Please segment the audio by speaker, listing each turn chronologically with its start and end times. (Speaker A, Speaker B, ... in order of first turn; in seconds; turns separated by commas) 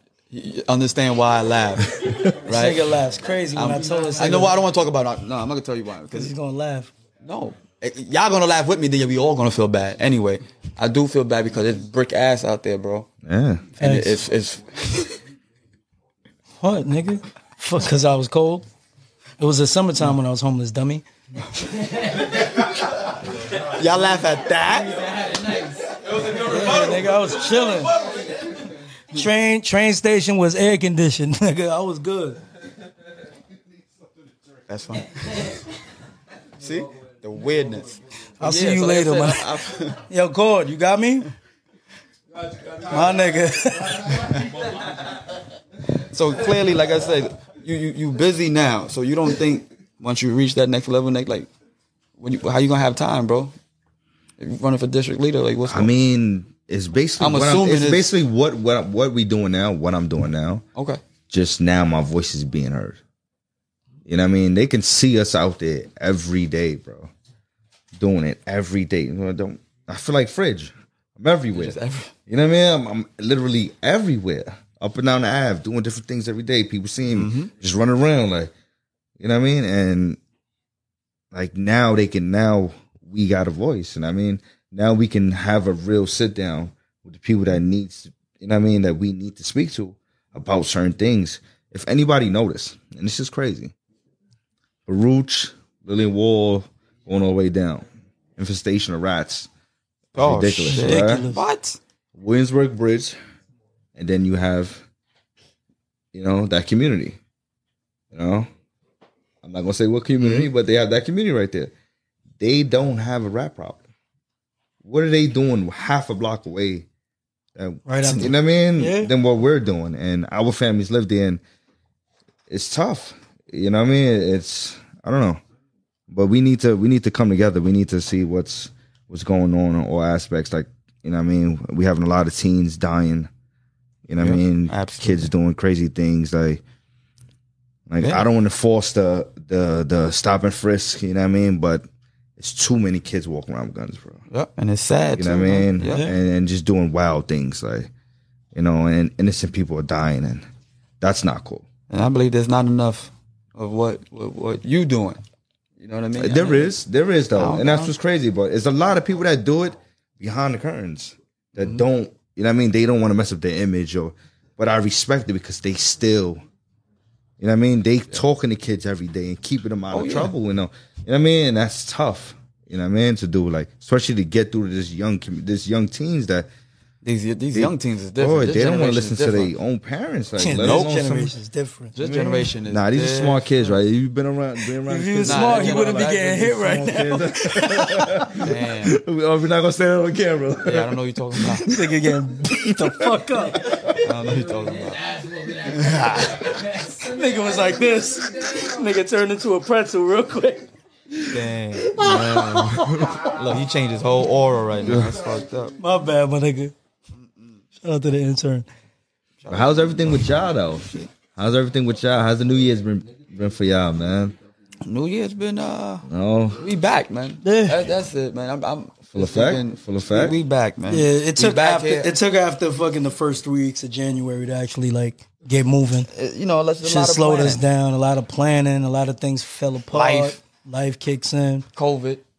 Speaker A: 0.3-2.9, Speaker B: 2.0-2.3, Speaker C: 2.4-4.6, Speaker A: 3.5-6.3, Speaker C: 6.1-6.9, Speaker A: 7.2-13.1, Speaker B: 13.2-13.7, Speaker A: 13.8-15.2, Speaker C: 13.8-14.2, Speaker C: 16.6-18.7, Speaker C: 19.4-21.0, Speaker A: 23.6-25.3, Speaker C: 26.3-28.0, Speaker C: 29.1-32.4, Speaker A: 34.7-35.6, Speaker A: 36.6-40.0, Speaker C: 38.4-41.3, Speaker C: 42.8-44.4, Speaker A: 46.0-51.5, Speaker A: 52.2-53.5, Speaker A: 54.4-55.9, Speaker B: 55.6-60.6, Speaker A: 57.2-58.1, Speaker A: 60.7-61.0, Speaker B: 61.3-63.0, Speaker B: 64.0-67.1, Speaker B: 68.0-78.5, Speaker A: 71.5-72.1, Speaker A: 77.1-77.5, Speaker B: 79.2-80.2, Speaker B: 81.3-93.7, Speaker B: 94.9-97.8, Speaker B: 98.4-99.5, Speaker B: 100.1-101.3, Speaker A: 100.2-101.8, Speaker C: 100.7-101.4, Speaker B: 102.1-103.2, Speaker B: 104.0-104.8, Speaker B: 106.1-107.2, Speaker B: 108.1-108.5, Speaker B: 109.4-111.7, Speaker A: 110.2-110.5, Speaker B: 112.4-113.8, Speaker B: 114.8-116.9, Speaker B: 117.5-121.4, Speaker C: 117.8-119.1, Speaker B: 122.5-125.4, Speaker B: 126.1-133.3, Speaker B: 134.1-136.6, Speaker A: 134.2-135.3, Speaker B: 137.9-141.8, Speaker B: 142.4-144.2, Speaker A: 144.3-146.1, Speaker B: 145.1-147.9, Speaker B: 148.5-150.4, Speaker B: 151.0-151.7, Speaker A: 151.9-155.2, Speaker A: 155.8-156.8, Speaker B: 156.2-166.4, Speaker A: 157.3-157.9, Speaker B: 167.4-176.5, Speaker A: 169.9-170.3, Speaker A: 177.0-179.5, Speaker B: 177.5-181.1, Speaker C: 180.4-182.5, Speaker A: 180.6-181.3, Speaker A: 181.9-183.7, Speaker B: 182.7-191.9, Speaker C: 184.8-188.3, Speaker A: 185.2-186.7, Speaker A: 188.4-189.0, Speaker A: 190.6-191.7, Speaker C: 191.6-193.7, Speaker B: 192.5-194.1, Speaker A: 194.0-196.5, Speaker C: 196.7-200.7, Speaker A: 201.3-205.8, Speaker B: 201.9-203.3, Speaker C: 202.0-203.0, Speaker B: 204.8-205.2, Speaker C: 205.8-206.7, Speaker A: 207.2-207.6, Speaker C: 207.8-208.7, Speaker A: 209.4-211.1, Speaker B: 209.5-214.3, Speaker A: 214.8-222.1, Speaker B: 216.1-216.6, Speaker C: 217.4-217.8, Speaker B: 219.1-220.4, Speaker C: 220.9-226.1, Speaker A: 226.0-227.6, Speaker C: 226.8-231.7, Speaker A: 229.9-230.4, Speaker A: 231.7-232.2